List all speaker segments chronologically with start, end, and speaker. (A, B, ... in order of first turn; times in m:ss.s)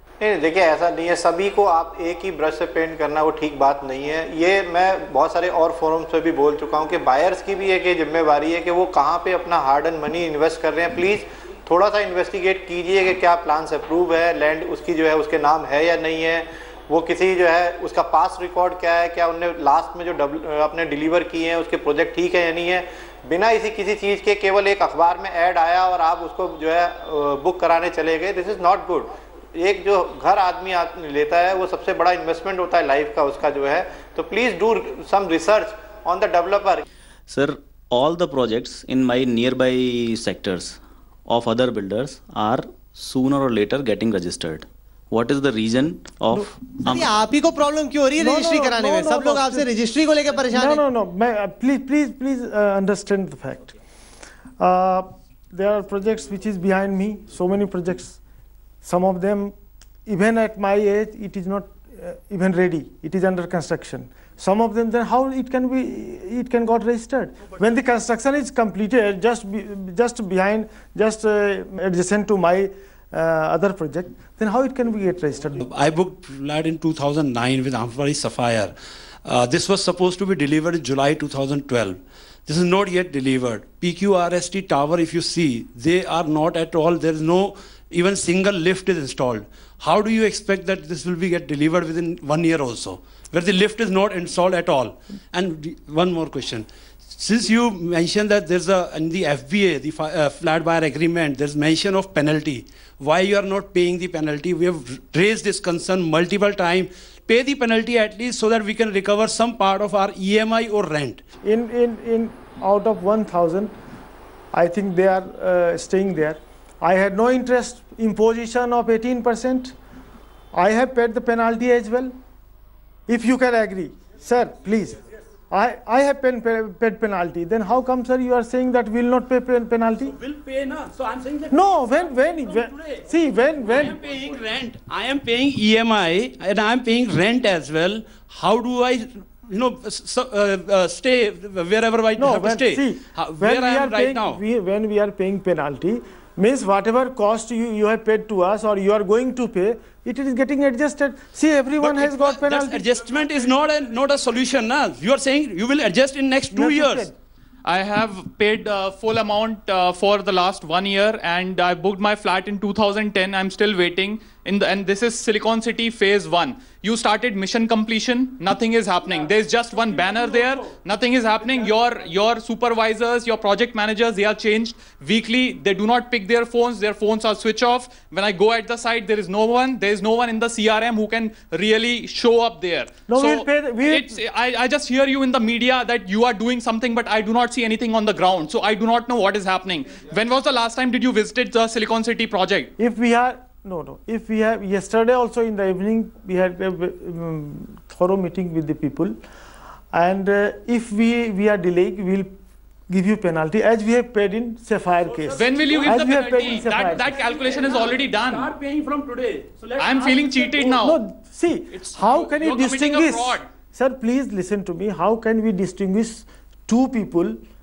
0:00.2-0:36.8 A
0:37.3-0:47.1 B
0:46.9-0:50.8 C
0:48.2-0:49.7 D
0:50.5-0:53.7 D
0:54.6-0:58.2 D
0:58.8-0:59.6 D
1:00.1-1:15.6 D
1:15.6-1:51.2 E
1:51.4-1:53.8 D
1:54.5-1:59.8 D
2:00.5-2:02.2 D
2:03.1-2:05.0 D
2:05.5-2:10.1 D
2:10.0-2:24.4 E
2:11.5-2:14.0 D
2:22.2-2:32.8 D
2:31.8-2:37.1 E
2:36.5-2:37.1 D
2:37.6-3:12.7 F
3:03.1-3:04.2 D
3:12.8-3:19.2 D
3:19.9-3:22.3 D
3:22.9-3:27.1 D
3:25.0-3:30.6 E
3:25.3-3:28.5 F
3:29.8-3:31.0 F
3:30.6-3:37.4 D
3:31.7-3:33.5 F